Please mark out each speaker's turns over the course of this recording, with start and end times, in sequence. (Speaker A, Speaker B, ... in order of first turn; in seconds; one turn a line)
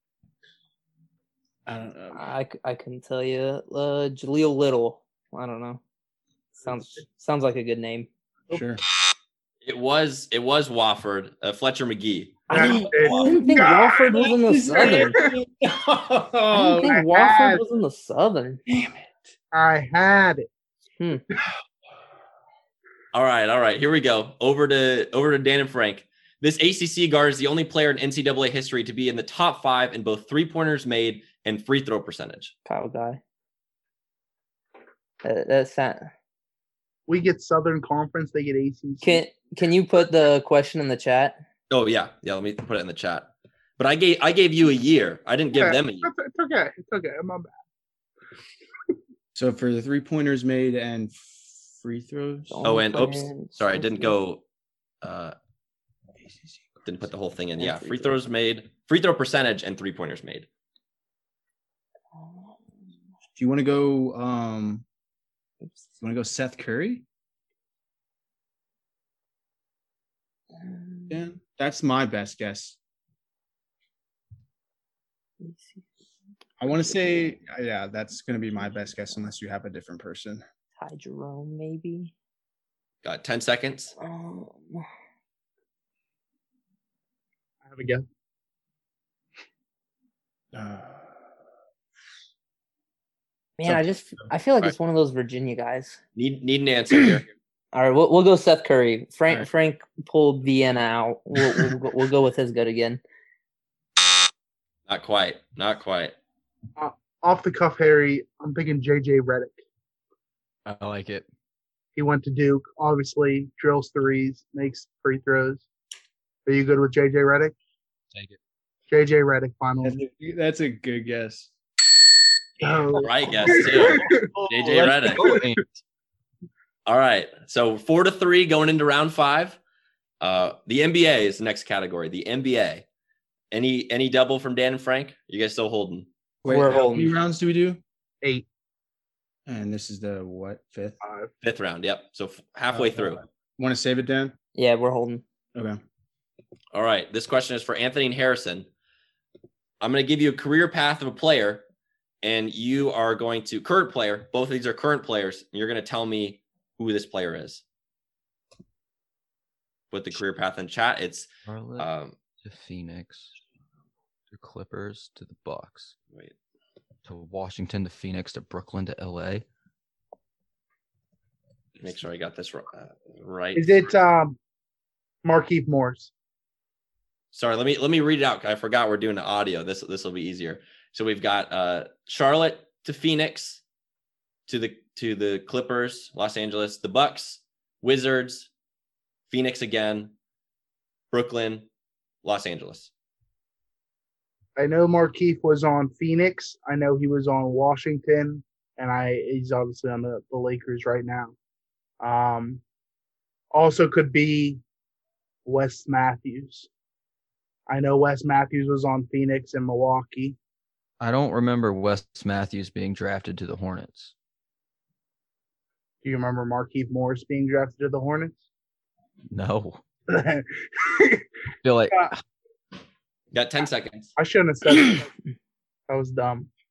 Speaker A: 1.6-2.3
Speaker B: 2.1-5.8
Speaker B: 6.6-8.1
Speaker A: 8.5-8.8
Speaker C: 9.6-12.5
Speaker D: 12.5-13.9
Speaker A: 12.5-17.0
Speaker B: 12.5-15.2
Speaker D: 14.8-15.3
Speaker B: 16.5-18.6
Speaker D: 16.8-17.6
Speaker A: 18.7-19.1
Speaker D: 19.5-20.5
Speaker C: 23.1-32.5
Speaker B: 32.6-33.2
Speaker B: 35.2-36.1
Speaker D: 37.1-39.2
Speaker B: 39.0-41.4
Speaker C: 41.7-46.1
Speaker D: 45.5-47.5
Speaker A: 49.3-52.7
Speaker B: 52.5-54.1
Speaker C: 52.6-54.4
Speaker C: 55.0-55.4
Speaker A: 56.2-56.8
Speaker C: 56.8-60.5
Speaker B: 57.6-58.2
Speaker B: 62.1-62.6
Speaker A: 63.4-64.8
Speaker A: 66.0-67.0
Speaker B: 70.5-71.2
Speaker A: 71.1-72.8
Speaker B: 75.4-75.9
Speaker A: 76.6-80.4
Speaker B: 76.8-77.3
Speaker B: 80.8-82.1
Speaker C: 83.0-83.9
Speaker B: 84.0-84.8
Speaker D: 87.6-88.0
Speaker A: 90.5-91.2
Speaker B: 93.6-96.0
Speaker C: 96.2-97.3
Speaker B: 97.7-103.0
Speaker C: 104.9-106.1
Speaker D: 106.8-109.6
Speaker E: 110.7-111.2
Speaker D: 112.0-115.6
Speaker D: 116.5-117.5
Speaker D: 118.9-120.0
Speaker A: 119.8-121.5
Speaker D: 122.6-124.3
Speaker C: 123.0-125.3
Speaker E: 124.1-125.6
Speaker D: 125.1-125.4
Speaker C: 126.8-129.6
Speaker C: 130.2-132.8
Speaker C: 133.5-136.1
Speaker A: 136.4-137.8
Speaker B: 136.4-137.1
Speaker A: 139.5-141.0
Speaker D: 141.0-141.3
Speaker C: 141.4-143.2
Speaker A: 142.7-144.3
Speaker B: 144.5-145.2
Speaker A: 145.5-145.8
Speaker C: 146.7-148.7
Speaker C: 149.8-151.6
Speaker C: 152.2-157.6
Speaker C: 159.9-162.2
Speaker E: 161.5-161.9
Speaker E: 162.4-163.3
Speaker E: 164.3-165.9
Speaker E: 167.1-169.4
Speaker C: 171.8-173.9
Speaker D: 173.5-174.4
Speaker D: 175.2-176.1
Speaker C: 177.3-183.6
Speaker C: 184.5-188.5
Speaker C: 189.3-190.1
Speaker C: 191.1-191.7
Speaker C: 192.2-192.9
Speaker D: 194.6-201.3
Speaker D: 202.0-202.6
Speaker D: 203.5-204.6
Speaker D: 205.4-206.7
Speaker D: 207.7-210.3
Speaker E: 211.0-214.1
Speaker D: 216.0-218.4
Speaker E: 219.3-219.8
Speaker D: 220.1-221.2
Speaker E: 221.6-222.2
Speaker C: 223.3-224.1
Speaker D: 224.2-225.1
Speaker D: 225.9-226.5